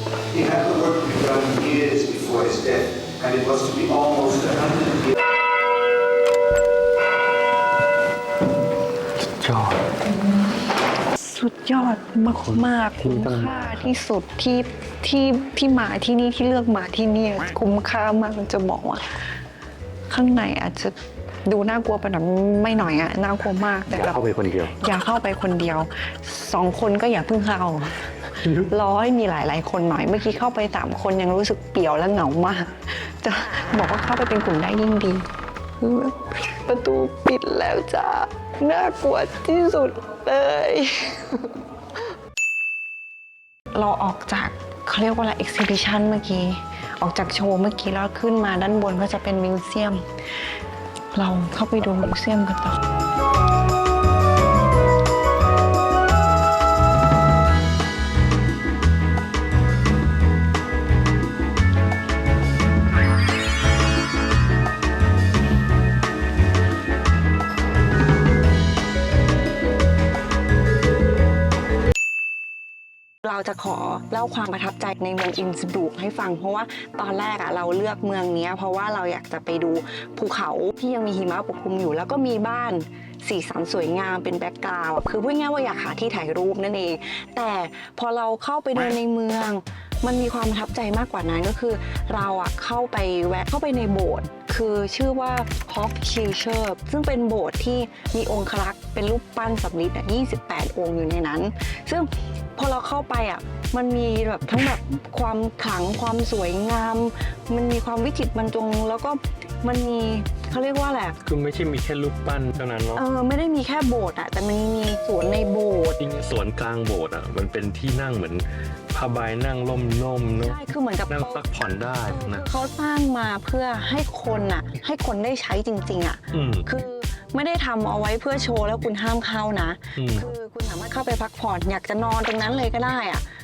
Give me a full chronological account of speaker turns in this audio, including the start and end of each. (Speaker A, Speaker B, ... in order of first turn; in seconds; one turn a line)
Speaker A: 0.3-5.1
Speaker B: 9.2-9.8
Speaker C: 11.2-19.0
Speaker B: 12.4-13.9
Speaker C: 20.1-20.9
Speaker C: 21.4-24.2
Speaker B: 23.9-24.7
Speaker C: 24.8-28.1
Speaker B: 28.4-28.7
Speaker C: 28.7-35.3
Speaker C: 35.8-41.5
Speaker C: 43.7-50.0
Speaker C: 51.1-52.8
Speaker C: 73.2-111.2
Speaker B: 111.2-113.0
Speaker C: 113.0-116.0
Speaker B: 116.0-120.6
Speaker C: 120.4-121.5
Speaker B: 121.1-122.4
Speaker C: 122.1-133.2
Speaker B: 126.3-126.7
Speaker B: 130.0-130.3